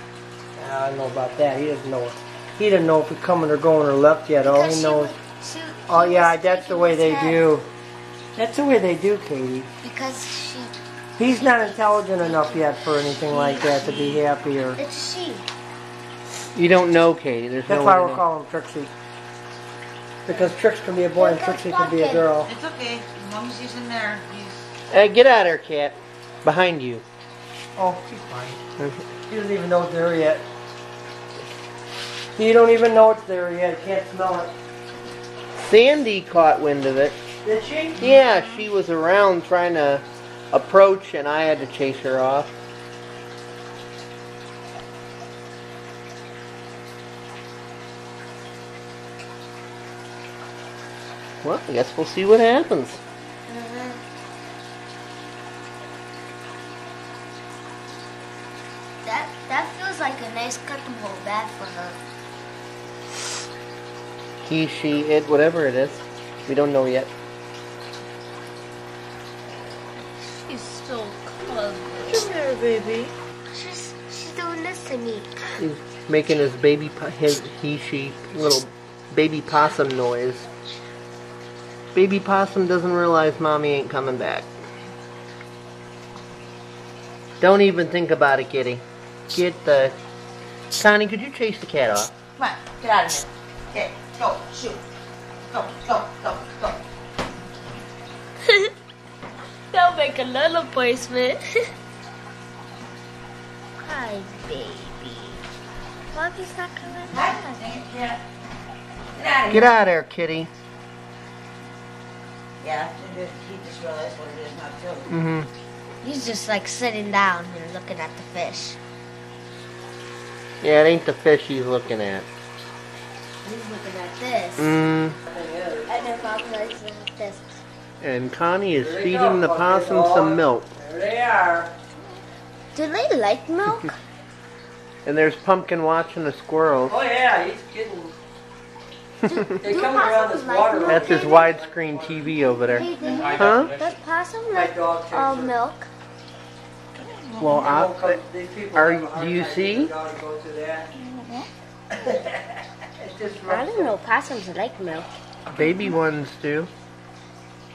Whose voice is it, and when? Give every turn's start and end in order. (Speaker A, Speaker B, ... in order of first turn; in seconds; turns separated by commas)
Speaker A: 0.6-5.2, Speaker B: 4.4-7.5, Speaker A: 5.9-7.7, Speaker A: 8.4-9.7, Speaker B: 9.8-10.8, Speaker A: 11.2-14.8, Speaker B: 11.3-14.2, Speaker B: 14.8-15.5, Speaker C: 16.6-18.2, Speaker A: 17.7-18.9, Speaker A: 20.3-22.5, Speaker B: 20.3-20.5, Speaker B: 21.1-22.3, Speaker D: 22.4-24.7, Speaker C: 24.9-27.1, Speaker A: 27.8-28.6, Speaker A: 29.3-30.5, Speaker A: 32.4-34.5, Speaker C: 35.5-37.2, Speaker A: 37.4-38.1, Speaker C: 38.0-42.5, Speaker C: 51.4-53.0, Speaker B: 53.5-54.0, Speaker B: 59.0-62.0, Speaker C: 64.4-67.1, Speaker D: 70.4-73.1, Speaker B: 73.5-75.6, Speaker C: 75.6-80.5, Speaker C: 81.9-84.5, Speaker C: 87.4-90.0, Speaker C: 90.8-92.1, Speaker D: 92.4-94.8, Speaker D: 95.5-96.8, Speaker B: 99.7-101.4, Speaker B: 103.8-105.4, Speaker B: 106.1-107.6, Speaker D: 107.1-108.2, Speaker D: 109.2-109.8, Speaker C: 109.5-110.5, Speaker D: 112.6-115.1, Speaker C: 115.1-115.5, Speaker B: 116.0-118.8, Speaker C: 120.6-122.3, Speaker B: 123.4-124.8, Speaker C: 124.6-125.2, Speaker A: 125.3-125.9, Speaker B: 125.9-127.6, Speaker C: 128.0-130.7, Speaker A: 128.8-131.7, Speaker B: 132.7-133.9, Speaker C: 135.1-137.0, Speaker A: 136.9-138.2, Speaker B: 139.2-141.6, Speaker A: 139.6-142.3, Speaker C: 140.8-143.8, Speaker B: 142.7-145.9, Speaker A: 144.5-145.6, Speaker D: 146.9-147.6, Speaker C: 147.4-148.2, Speaker A: 147.5-150.9, Speaker C: 148.8-149.9, Speaker D: 150.9-151.5, Speaker A: 151.9-154.0, Speaker B: 153.5-155.1, Speaker C: 155.5-156.7, Speaker D: 155.6-155.9